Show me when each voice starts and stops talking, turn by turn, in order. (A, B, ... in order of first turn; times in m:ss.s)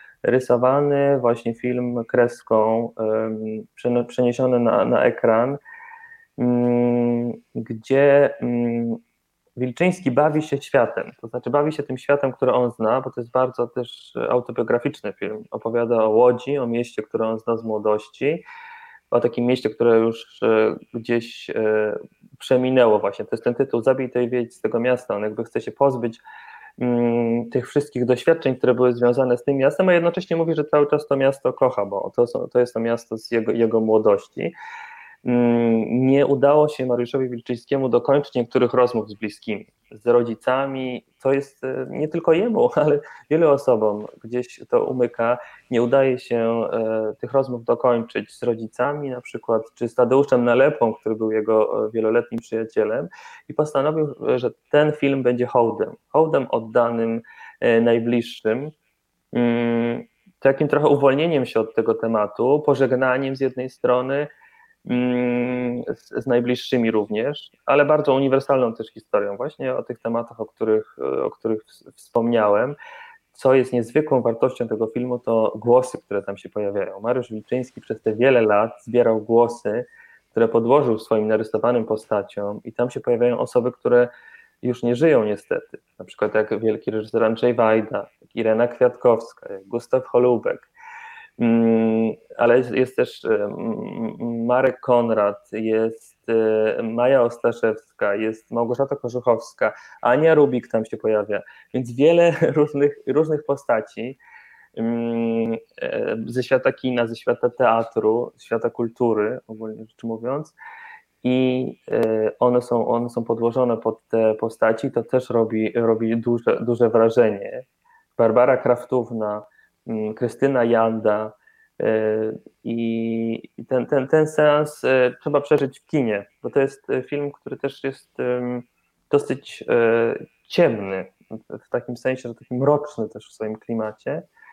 0:00.2-0:05.6 A
0:06.4-0:09.0 A
0:09.6-0:18.4 A
0:19.1-0:26.2 A
0:26.8-0:34.5 A
0:35.2-0:58.7 A
0:59.3-1:04.3 A
1:04.8-1:12.8 A
1:13.3-1:24.1 A
1:24.6-1:30.7 A
1:31.4-1:44.2 A
1:44.8-1:50.6 A
1:51.2-1:57.6 A
1:58.2-2:14.2 A